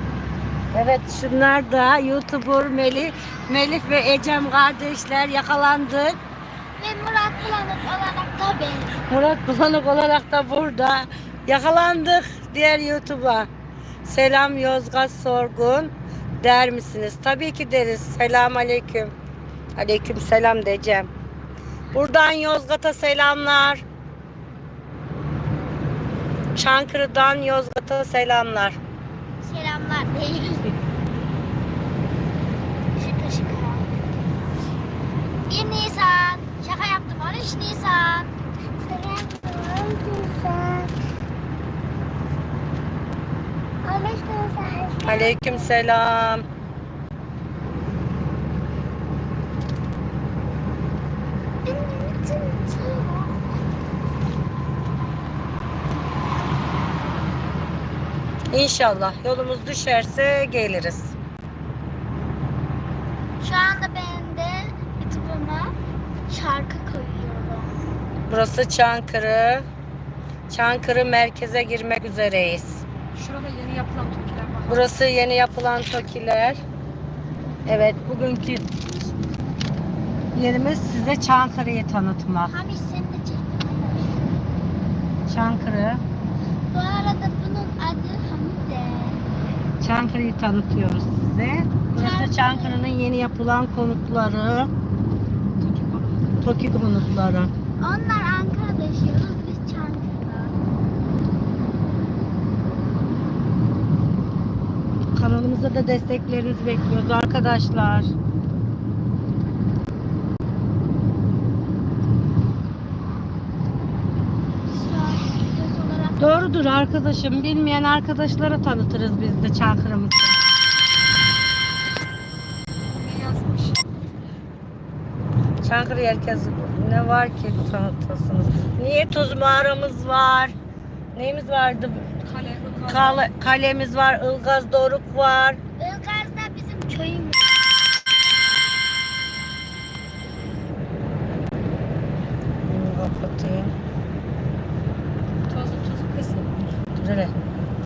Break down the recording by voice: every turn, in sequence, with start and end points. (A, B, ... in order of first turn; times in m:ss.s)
0:00.7-0:06.2 A
0:06.8-0:09.0 B
0:09.1-0:13.5 A
0:14.0-0:19.1 A
0:19.8-0:21.1 A
0:21.9-0:23.8 A
0:26.5-0:28.8 A
0:29.4-0:30.7 B
0:33.0-0:33.9 B
0:35.5-0:40.9 B
0:43.8-0:45.8 B
0:45.0-0:46.4 A
0:51.6-0:53.4 B
0:58.5-1:01.1 A
1:03.4-1:05.8 B
1:06.3-1:07.8 B
1:08.3-1:09.6 A
1:10.5-1:12.8 A
1:13.1-1:14.9 C
1:14.7-1:16.6 A
1:17.6-1:18.6 A
1:20.3-1:22.6 A
1:22.4-1:24.4 B
1:25.3-1:26.0 A
1:26.7-1:29.2 B
1:29.8-1:34.7 A
1:31.9-1:32.9 B
1:35.5-1:36.3 C
1:36.4-1:37.5 A
1:37.8-1:40.6 B
1:45.1-1:48.1 A
1:54.7-1:56.5 B
1:56.2-2:00.4 A
2:02.9-2:03.8 C
2:05.6-2:10.5 A
2:11.1-2:12.1 A
2:12.2-2:13.2 C
2:12.8-2:15.6 A
2:15.8-2:17.8 B
2:22.7-2:23.7 A
2:25.5-2:26.7 C
2:26.9-2:27.3 A